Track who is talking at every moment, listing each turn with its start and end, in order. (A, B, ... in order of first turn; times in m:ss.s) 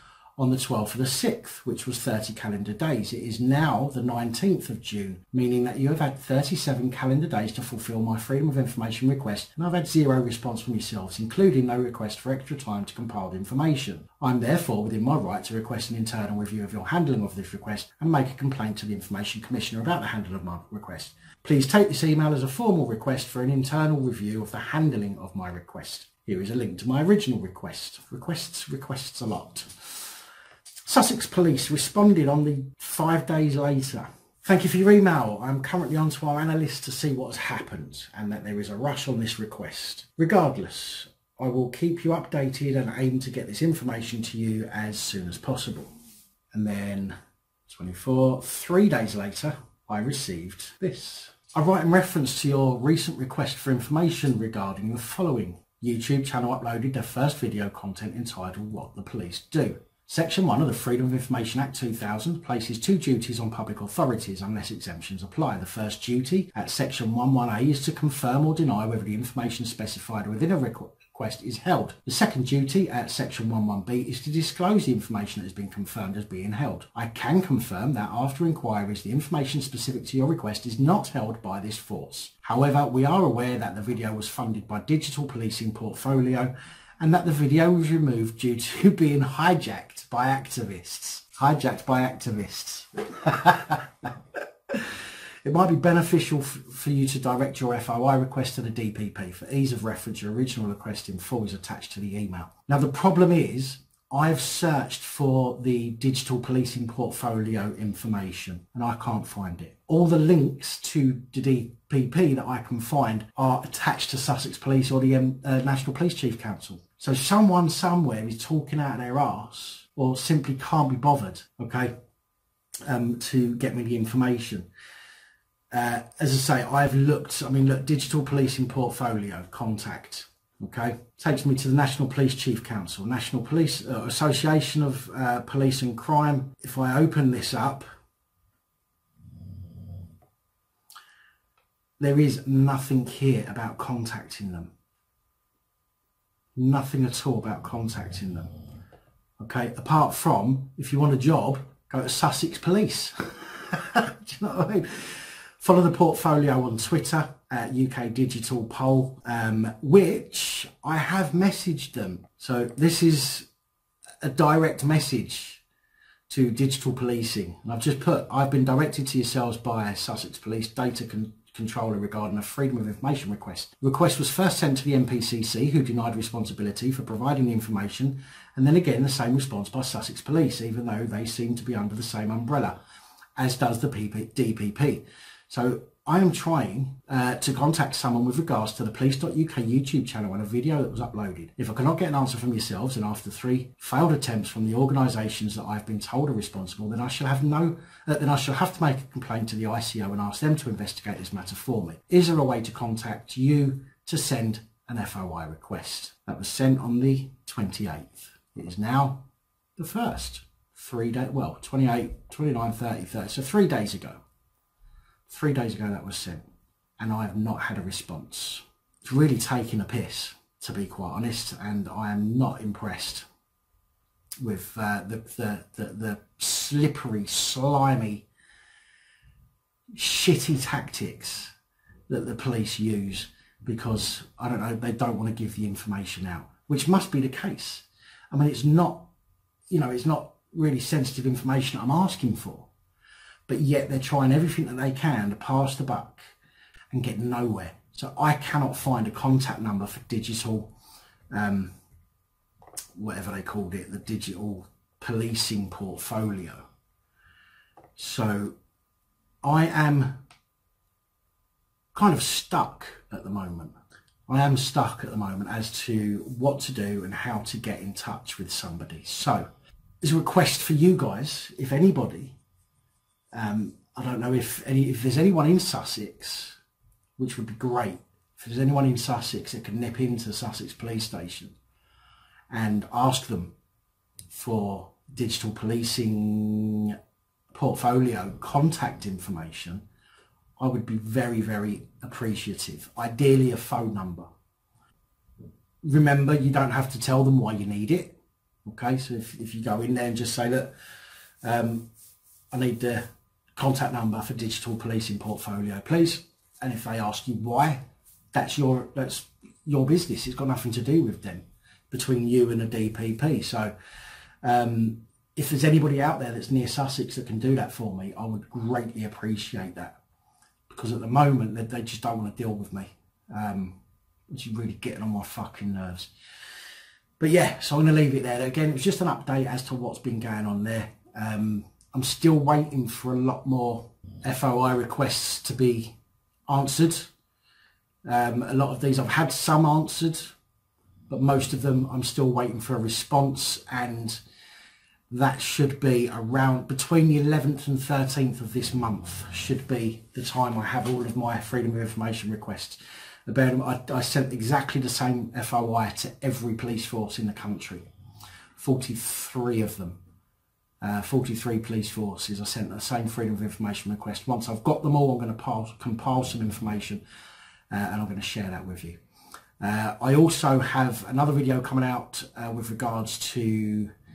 0:00.4-0:30.2 A
0:30.9-0:45.9 A
0:46.5-0:47.2 A
0:47.7-1:34.1 A
1:34.7-2:01.9 A
2:02.9-2:04.7 A
2:05.7-2:17.9 A
2:22.0-2:24.7 A
2:26.6-2:28.5 A
2:29.4-2:43.5 A
2:44.2-2:45.6 A
2:46.3-3:02.8 A
3:03.4-3:29.2 A
3:29.8-3:34.2 A
3:35.3-3:36.4 A
3:37.0-3:43.3 A
3:44.4-3:48.3 A
3:50.0-3:51.5 A
3:52.1-3:59.1 A
3:59.7-4:02.7 A
4:03.5-4:06.3 A
4:06.9-4:10.7 A
4:11.3-4:11.7 A
4:13.0-4:16.7 A
4:18.0-4:18.6 A
4:19.4-4:20.2 A
4:21.9-4:23.8 A
4:24.3-4:29.5 A
4:30.0-4:32.4 A
4:33.3-4:36.6 A
4:37.2-4:41.6 A
4:42.5-4:43.5 A
4:44.3-4:47.0 A
4:47.5-4:49.8 A
4:50.6-4:54.3 A
4:55.8-5:00.7 A
5:01.4-5:01.9 A
5:02.5-5:03.0 A
5:03.6-5:07.8 A
5:08.3-5:13.7 A
5:14.4-5:20.0 A
5:20.7-5:23.8 A
5:24.3-5:26.1 A
5:27.2-5:36.0 A
5:36.5-5:37.1 A
5:38.0-5:40.3 A
5:41.1-5:44.2 A
5:45.1-5:57.9 A
5:58.6-6:00.0 A
6:00.8-6:07.0 A
6:07.7-6:09.0 A
6:09.6-6:13.9 A